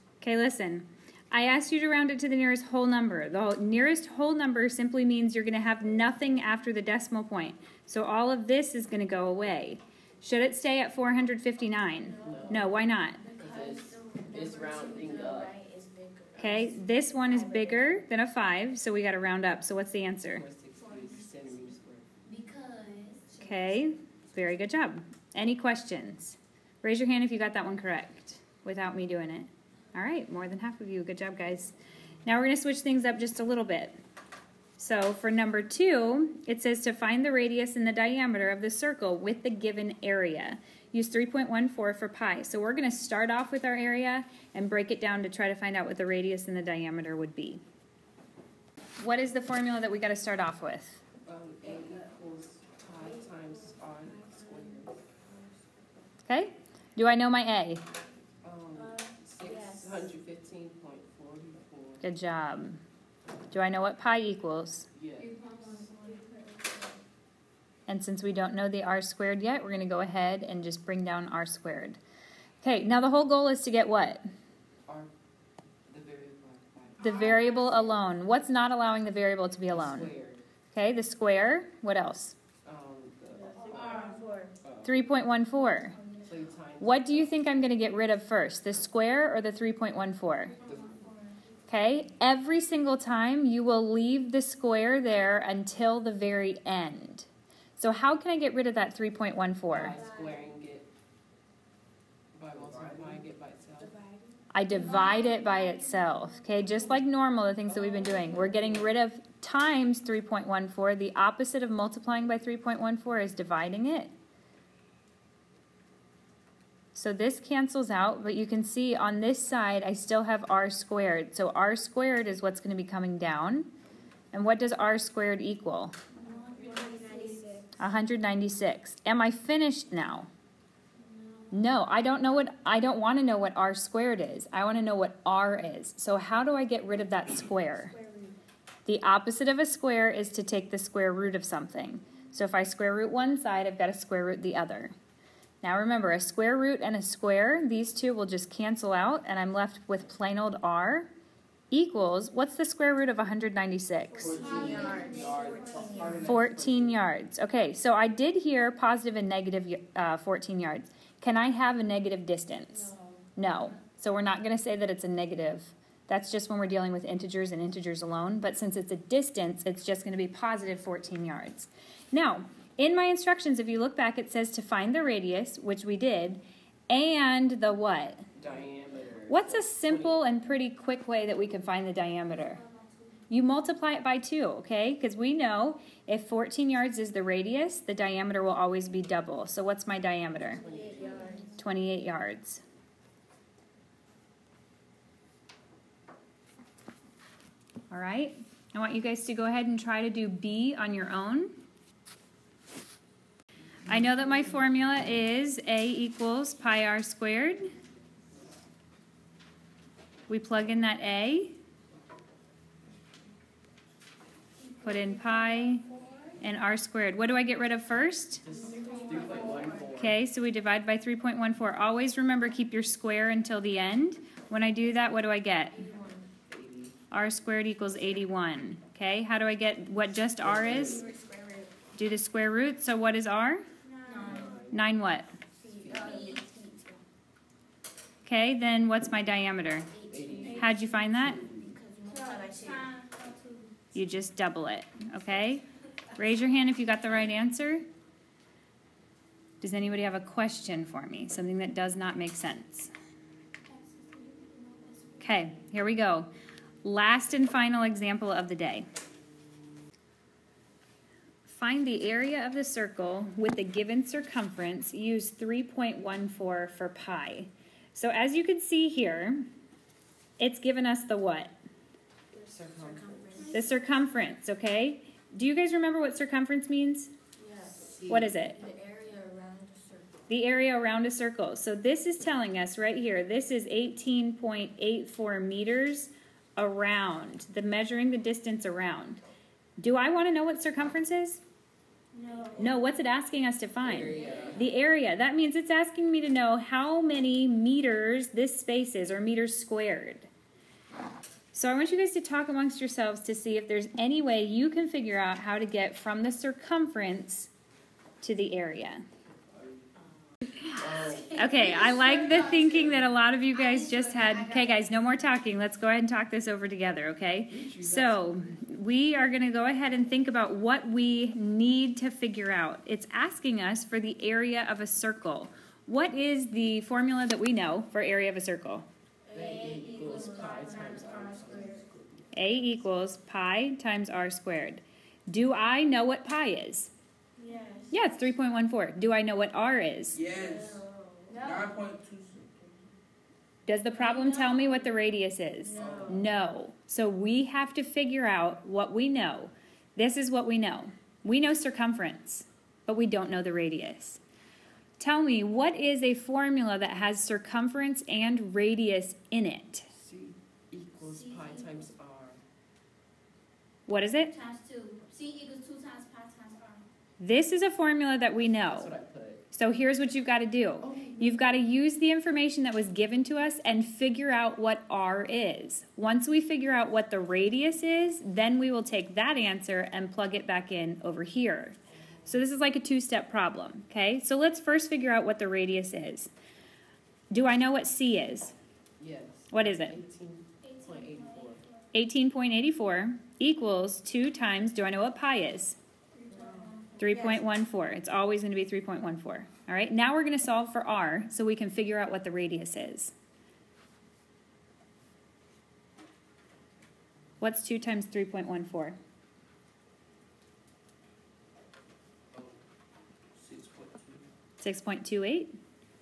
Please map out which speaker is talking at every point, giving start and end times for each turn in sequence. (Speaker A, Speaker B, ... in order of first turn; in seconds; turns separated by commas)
Speaker A: 0.2-13.2, Speaker B: 12.0-18.0, Speaker C: 12.2-12.8, Speaker C: 13.4-15.5, Speaker A: 16.4-20.4, Speaker C: 20.3-22.1, Speaker B: 20.8-21.3, Speaker D: 22.2-23.4, Speaker A: 23.4-31.7, Speaker A: 32.2-34.0, Speaker A: 34.8-47.6, Speaker A: 49.0-51.0, Speaker C: 51.2-55.0, Speaker B: 51.7-52.0, Speaker B: 53.0-55.7, Speaker A: 56.3-57.8, Speaker C: 58.4-62.0, Speaker B: 58.8-60.1, Speaker A: 62.0-62.8, Speaker A: 63.5-64.9, Speaker C: 65.0-65.3, Speaker D: 65.2-66.5, Speaker B: 65.4-66.9, Speaker A: 67.9-72.0, Speaker A: 72.6-74.2, Speaker C: 74.9-75.1, Speaker C: 75.9-77.2, Speaker A: 77.0-80.1, Speaker D: 77.1-77.8, Speaker C: 79.7-80.4, Speaker A: 80.7-82.4, Speaker C: 82.6-84.0, Speaker B: 83.3-84.5, Speaker D: 83.6-84.3, Speaker C: 84.6-85.0, Speaker A: 84.8-86.0, Speaker C: 86.2-87.4, Speaker A: 86.8-90.5, Speaker D: 90.5-90.9, Speaker B: 90.6-91.4, Speaker C: 90.6-91.0, Speaker A: 91.7-100.0, Speaker C: 99.7-100.9, Speaker B: 99.9-100.5, Speaker C: 102.3-103.9, Speaker E: 102.5-103.1, Speaker B: 103.8-104.4, Speaker A: 104.5-114.1, Speaker D: 104.7-106.0, Speaker B: 106.5-107.0, Speaker C: 107.7-108.9, Speaker A: 117.0-123.7, Speaker A: 124.3-126.0, Speaker D: 126.2-127.6, Speaker B: 126.2-127.7, Speaker A: 127.8-130.3, Speaker B: 131.0-131.5, Speaker A: 131.5-137.9, Speaker B: 137.9-138.3, Speaker A: 138.9-144.9, Speaker A: 145.6-151.1, Speaker A: 151.7-154.5, Speaker D: 154.1-156.1, Speaker E: 154.2-156.9, Speaker B: 154.2-156.4, Speaker A: 156.2-178.2, Speaker B: 162.7-163.2, Speaker C: 178.4-180.3, Speaker A: 179.3-182.6, Speaker D: 182.4-183.2, Speaker A: 183.3-190.6, Speaker C: 190.5-191.3, Speaker B: 190.5-191.6, Speaker D: 191.0-191.6, Speaker A: 191.6-192.6, Speaker A: 197.9-201.6, Speaker A: 203.9-207.7, Speaker A: 210.3-211.6, Speaker A: 214.8-215.9, Speaker D: 215.1-215.6, Speaker B: 215.6-216.3, Speaker A: 216.4-218.4, Speaker C: 218.4-220.2, Speaker B: 218.5-219.9, Speaker D: 218.8-219.6, Speaker A: 219.9-225.9, Speaker B: 225.8-226.3, Speaker C: 226.5-227.0, Speaker A: 227.1-231.1, Speaker C: 230.4-231.1, Speaker B: 230.5-231.7, Speaker A: 231.9-233.6, Speaker D: 233.9-234.6, Speaker B: 234.0-234.6, Speaker C: 234.2-234.8, Speaker A: 234.7-235.3, Speaker B: 235.6-236.8, Speaker C: 235.7-236.2, Speaker D: 235.8-237.0, Speaker A: 238.2-239.9, Speaker B: 239.9-240.9, Speaker D: 240.0-240.5, Speaker C: 240.1-241.7, Speaker A: 240.5-241.5, Speaker B: 241.6-242.9, Speaker D: 242.0-243.8, Speaker A: 243.9-245.6, Speaker A: 246.2-247.9, Speaker A: 249.6-252.9, Speaker D: 253.7-255.3, Speaker A: 255.2-256.3, Speaker A: 256.8-258.9, Speaker A: 261.5-269.5, Speaker A: 270.4-271.5, Speaker B: 272.3-273.7, Speaker C: 272.5-273.5, Speaker D: 273.4-273.7, Speaker A: 273.5-277.1, Speaker B: 277.4-280.1, Speaker C: 277.7-278.4, Speaker A: 278.1-278.6, Speaker A: 280.3-289.2, Speaker A: 289.8-291.4, Speaker B: 292.1-292.8, Speaker A: 292.6-300.3, Speaker C: 293.8-294.7, Speaker B: 294.1-294.5, Speaker A: 301.5-307.5, Speaker A: 308.2-309.0, Speaker C: 310.8-311.4, Speaker D: 311.0-312.9, Speaker A: 311.2-328.9, Speaker D: 313.5-314.7, Speaker C: 317.5-318.2, Speaker B: 329.3-331.8, Speaker C: 329.3-332.3, Speaker D: 329.6-331.3, Speaker A: 332.3-336.9, Speaker B: 337.4-338.0, Speaker A: 337.9-340.2, Speaker E: 340.1-340.8, Speaker B: 340.3-341.8, Speaker E: 341.4-342.6, Speaker A: 343.7-354.2, Speaker D: 343.9-344.9, Speaker B: 345.6-346.2, Speaker E: 345.8-346.2, Speaker A: 355.0-359.9, Speaker C: 360.0-362.4, Speaker D: 361.0-361.8, Speaker A: 363.9-364.3, Speaker D: 364.2-366.9, Speaker A: 367.2-368.9, Speaker C: 368.7-369.4, Speaker A: 369.5-386.3, Speaker C: 370.8-371.4, Speaker A: 387.3-388.5, Speaker C: 389.0-391.6, Speaker A: 389.5-390.0, Speaker D: 390.6-391.9, Speaker A: 391.9-395.8, Speaker D: 396.2-396.9, Speaker B: 396.3-397.5, Speaker A: 397.0-403.1, Speaker A: 407.4-409.0, Speaker E: 413.4-414.3, Speaker A: 414.6-415.6